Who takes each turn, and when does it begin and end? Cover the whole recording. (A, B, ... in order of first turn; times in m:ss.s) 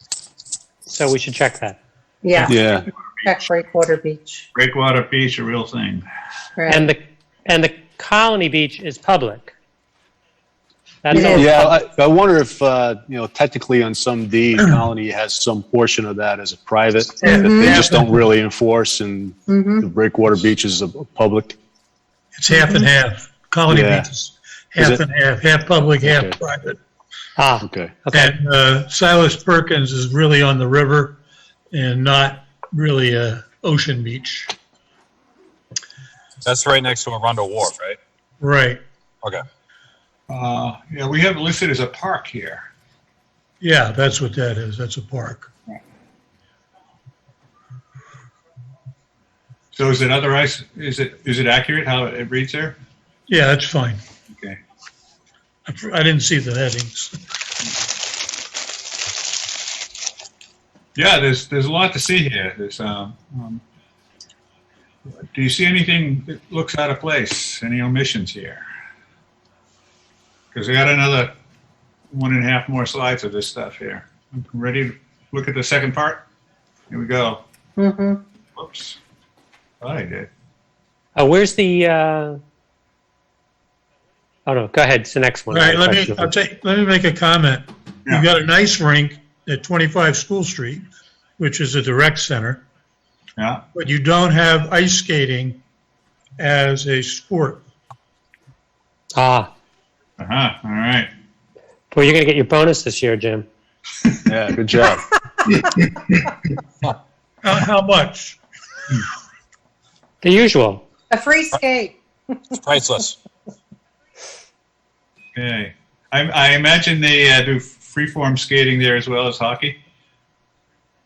0:00.9-0:01.8 A
0:02.2-0:02.7 B
0:02.4-0:02.8 C
0:03.2-0:04.4 B
0:04.5-0:06.0 D
0:06.6-0:06.9 B
0:06.7-0:09.5 A
0:11.0-0:11.7 A
0:11.1-0:11.5 B
0:11.1-0:21.6 C
0:17.2-0:17.8 B
0:17.2-0:18.0 E
0:19.5-0:19.8 B
0:22.3-0:26.8 E
0:22.5-0:22.8 B
0:23.7-0:24.1 C
0:24.8-0:25.0 C
0:26.0-0:26.4 C
0:27.4-0:28.3 A
0:27.6-0:28.0 C
0:28.1-0:31.2 E
0:31.7-0:34.5 E
0:36.4-0:38.0 F
0:38.4-0:38.8 E
0:40.3-0:42.7 D
0:43.6-0:45.5 E
0:49.7-0:52.8 D
0:53.3-0:54.0 E
0:54.3-0:54.6 D
0:55.6-0:57.1 E
1:01.0-1:03.6 D
1:05.3-1:08.6 D
1:10.5-1:11.3 D
1:12.1-1:16.2 D
1:16.9-1:17.4 D
1:17.8-1:18.2 B
1:18.6-1:19.0 D
1:19.8-1:20.3 D
1:21.2-1:22.4 A
1:24.4-1:26.3 A
1:25.5-1:30.8 E
1:31.4-1:32.6 E
1:33.4-1:33.6 D
1:33.7-1:35.6 E
1:36.4-1:37.6 E
1:39.1-1:39.5 A
1:40.2-1:41.1 D
1:41.9-1:43.4 A
1:44.3-1:45.1 C
1:47.4-1:48.4 E
1:50.2-1:50.8 A
1:51.1-1:52.5 B
1:52.6-1:53.1 F
1:55.3-1:59.8 D